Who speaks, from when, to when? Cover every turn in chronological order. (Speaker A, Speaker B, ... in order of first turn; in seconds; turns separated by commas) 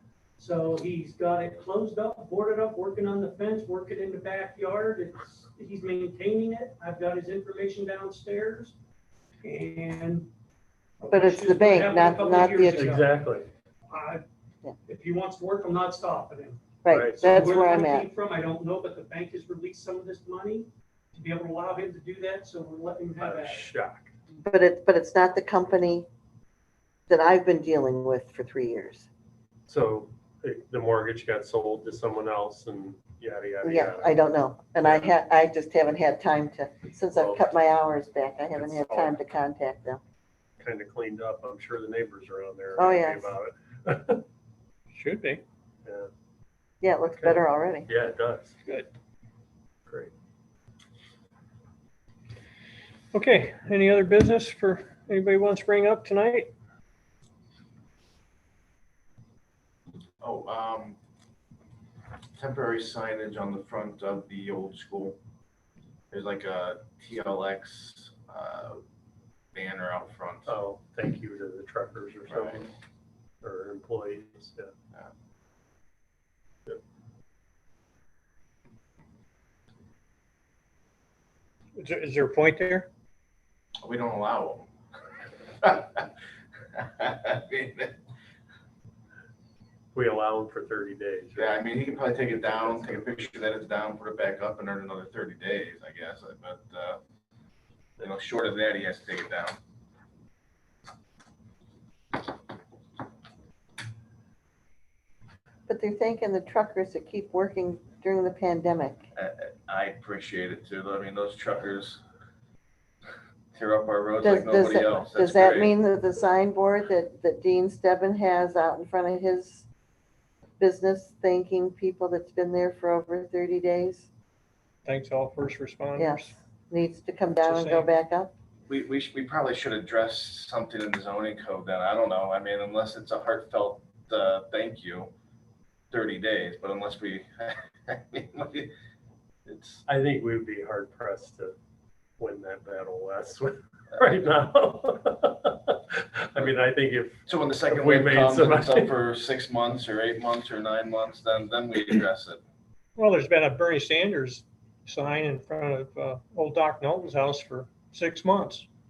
Speaker A: 0.4-8.7, Speaker A: 9.4-10.3, Speaker A: 11.0-13.1, Speaker B: 11.1-12.9, Speaker C: 12.8-13.5, Speaker A: 13.9-14.2, Speaker A: 14.8-23.7, Speaker B: 16.8-18.1, Speaker C: 16.9-17.4, Speaker C: 23.2-24.1, Speaker B: 24.4-26.1, Speaker B: 27.1-29.1, Speaker C: 29.7-34.3, Speaker B: 33.6-40.0, Speaker C: 34.8-35.1, Speaker C: 37.1-37.5, Speaker C: 38.5-39.1, Speaker C: 40.6-44.2, Speaker B: 42.8-43.3, Speaker D: 44.9-45.4, Speaker C: 45.8-46.1, Speaker B: 46.8-47.9, Speaker C: 47.1-48.5, Speaker C: 49.9-50.1, Speaker D: 53.1-56.5, Speaker E: 60.2-61.0, Speaker E: 62.4-65.2, Speaker E: 66.1-68.8, Speaker E: 69.5-70.5, Speaker C: 70.5-72.7, Speaker E: 72.3-72.6, Speaker C: 73.4-74.7, Speaker D: 81.8-82.9, Speaker E: 83.8-84.7, Speaker E: 85.6-86.1, Speaker E: 86.8-87.9, Speaker C: 89.9-93.3, Speaker E: 91.3-97.0, Speaker E: 98.0-99.6, Speaker B: 105.7-109.0, Speaker E: 109.1-112.0, Speaker E: 113.5-115.7, Speaker B: 114.2-119.7, Speaker B: 120.6-124.1, Speaker D: 124.8-126.3, Speaker B: 126.0-128.3, Speaker D: 127.4-127.9, Speaker E: 128.7-135.1, Speaker E: 135.9-138.7, Speaker E: 139.4-139.8, Speaker C: 139.8-141.5, Speaker C: 142.2-148.9, Speaker E: 147.3-152.4, Speaker D: 153.0-158.7